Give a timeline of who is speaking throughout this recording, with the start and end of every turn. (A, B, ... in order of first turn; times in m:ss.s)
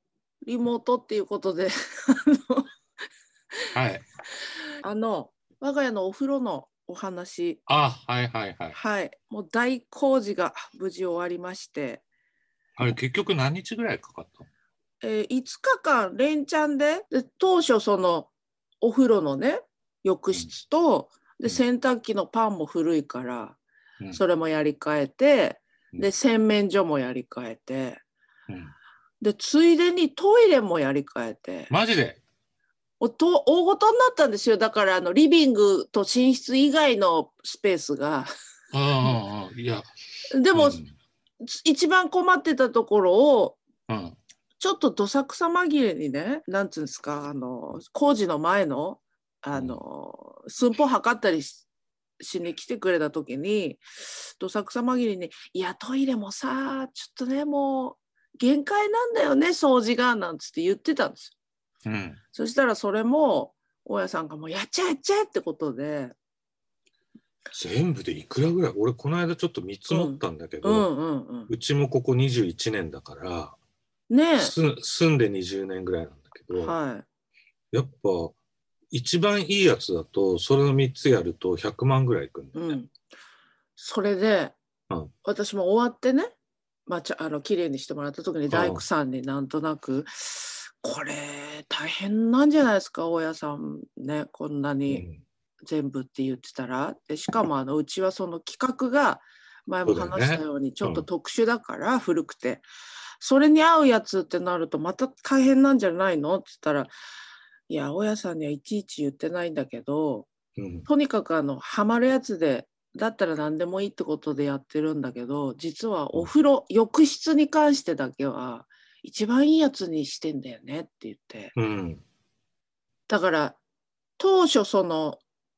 0:00.4-0:02.7 A
0:03.8-0:04.0 B
0:04.8-0:07.6 A
0:07.7-0:08.8 B
0:08.7-0:12.0 A
0:12.8-0:14.5 B
0:15.0-0:18.3 A
0:18.8-0:23.6 A
0:24.1-0:28.0 A
0:28.5-0:28.7 B
0:29.2-0:31.7 A
0:31.7-0:32.2 B
0:33.0-0:38.3 A
0:38.7-0:39.9 B
0:40.3-0:40.8 A
0:40.5-0:40.9 B
0:41.4-0:43.6 A
0:43.9-0:44.2 B
0:44.6-0:51.6 A
0:52.2-1:01.3 A
1:01.8-1:02.2 B
1:02.3-1:06.2 A
1:07.5-1:10.9 B
1:09.9-1:11.5 A
1:11.5-1:13.6 B
1:14.1-1:14.6 A
1:14.4-1:16.8 B
1:16.6-1:17.0 A
1:17.7-1:18.4 B
1:18.9-1:22.7 B
1:22.5-1:22.9 A
1:23.8-1:24.6 A
1:25.2-1:26.3 A
1:26.9-1:35.1 A
1:28.5-1:28.8 B
1:34.9-1:35.2 B
1:35.6-1:42.6 A
1:39.9-1:41.1 B
1:43.2-1:46.9 A
1:47.7-1:50.3 A
1:50.6-1:50.9 B
1:50.9-2:01.5 A
2:01.6-2:02.0 B
2:03.1-2:03.6 A
2:04.2-2:05.2 A